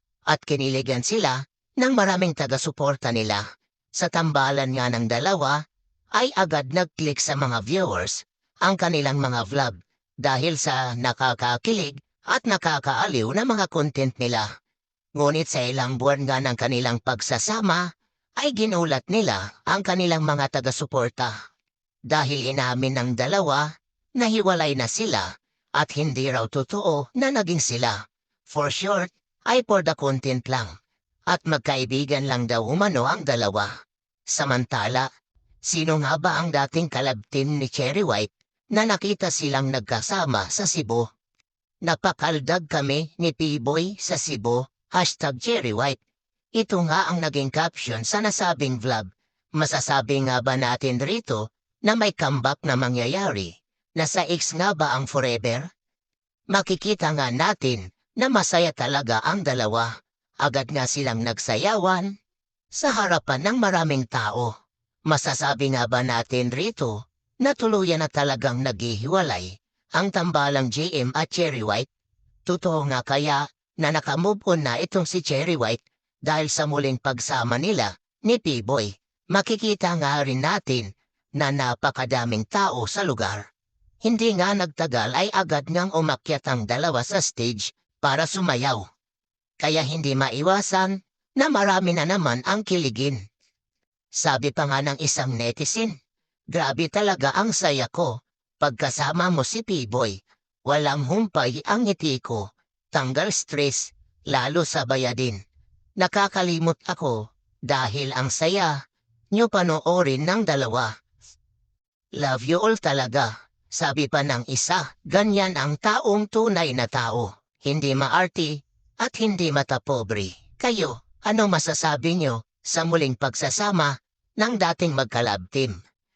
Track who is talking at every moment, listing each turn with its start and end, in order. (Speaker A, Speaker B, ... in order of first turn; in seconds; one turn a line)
Speaker A: 0.3-3.4
Speaker A: 3.9-5.6
Speaker A: 6.2-14.5
Speaker A: 15.2-21.3
Speaker A: 22.1-30.7
Speaker A: 31.3-33.7
Speaker A: 34.3-35.1
Speaker A: 35.6-41.1
Speaker A: 41.8-46.0
Speaker A: 46.6-55.7
Speaker A: 56.5-59.9
Speaker A: 60.4-62.1
Speaker A: 62.7-64.5
Speaker A: 65.1-71.9
Speaker A: 72.5-83.4
Speaker A: 84.0-88.8
Speaker A: 89.6-93.2
Speaker A: 94.2-95.9
Speaker A: 96.5-105.4
Speaker A: 106.0-108.8
Speaker A: 109.3-110.9
Speaker A: 112.2-125.8